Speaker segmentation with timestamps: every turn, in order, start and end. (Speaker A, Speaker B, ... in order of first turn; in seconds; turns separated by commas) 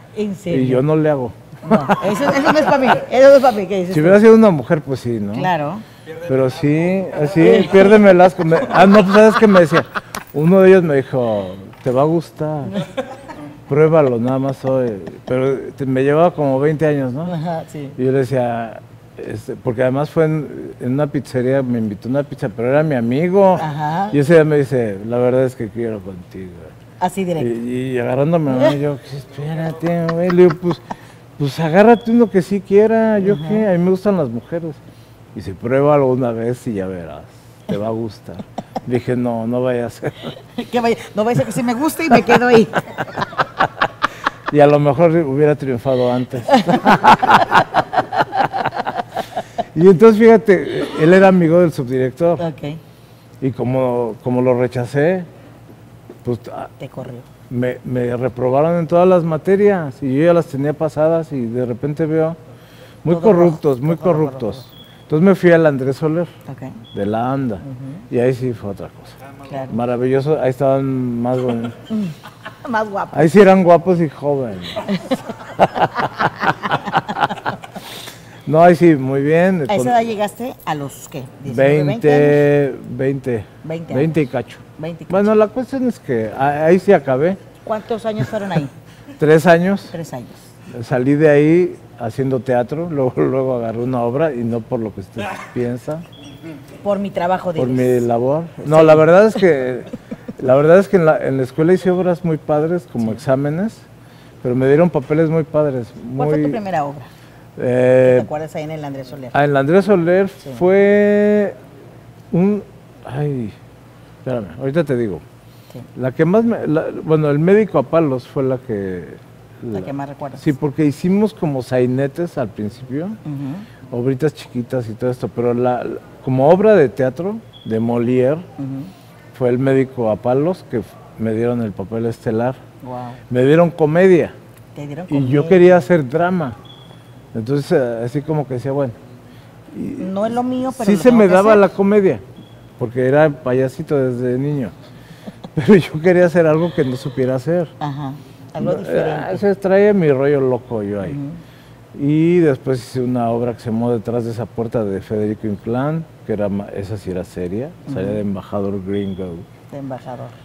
Speaker A: 0.1-0.8, Speaker B: 0.5-2.1, Speaker A: 1.6-4.2, Speaker B: 3.9-5.5, Speaker A: 5.3-5.8, Speaker B: 6.2-12.8, Speaker A: 7.3-8.0, Speaker B: 13.7-17.3, Speaker A: 17.2-18.0, Speaker B: 18.0-26.7, Speaker A: 23.6-24.2, Speaker A: 27.0-27.5, Speaker B: 27.4-30.8, Speaker B: 31.4-34.8, Speaker A: 33.2-33.6, Speaker B: 35.3-40.4, Speaker A: 40.5-43.3, Speaker B: 43.4-43.8, Speaker B: 44.5-48.9, Speaker A: 46.5-46.9, Speaker B: 49.6-52.5, Speaker A: 52.4-52.8, Speaker B: 53.4-55.3, Speaker B: 56.2-56.7, Speaker A: 56.8-57.3, Speaker B: 57.5-62.4, Speaker B: 63.0-66.3, Speaker A: 63.1-64.7, Speaker A: 66.5-66.8, Speaker B: 66.9-71.8, Speaker A: 67.6-68.0, Speaker A: 69.4-69.8, Speaker A: 71.9-73.4, Speaker B: 73.1-77.5, Speaker A: 74.8-75.2, Speaker A: 76.4-76.8, Speaker B: 78.5-80.1, Speaker A: 79.7-82.4, Speaker B: 81.5-87.4, Speaker A: 83.6-84.1, Speaker A: 84.8-85.3, Speaker A: 87.6-88.7, Speaker B: 89.2-89.9, Speaker A: 89.9-90.5, Speaker B: 90.7-96.0, Speaker A: 96.8-98.0, Speaker B: 97.6-103.8, Speaker A: 98.6-99.1, Speaker B: 104.4-106.6, Speaker A: 106.2-107.1, Speaker B: 107.6-108.3, Speaker A: 108.0-109.4, Speaker B: 109.3-111.5, Speaker B: 112.3-113.6, Speaker B: 114.2-115.2, Speaker B: 115.9-123.2, Speaker A: 119.7-120.5, Speaker A: 123.2-123.7, Speaker B: 123.9-128.5, Speaker A: 128.6-128.9, Speaker B: 129.3-132.6, Speaker A: 132.8-133.2, Speaker B: 133.3-134.3, Speaker A: 134.8-135.8, Speaker B: 135.1-136.6, Speaker B: 137.3-139.0, Speaker B: 139.7-142.2, Speaker A: 140.0-141.6, Speaker B: 142.8-144.8, Speaker B: 145.6-147.7, Speaker A: 147.8-149.4, Speaker B: 148.6-151.2, Speaker A: 151.0-151.4, Speaker B: 151.9-159.5, Speaker A: 157.9-158.2, Speaker A: 159.7-160.3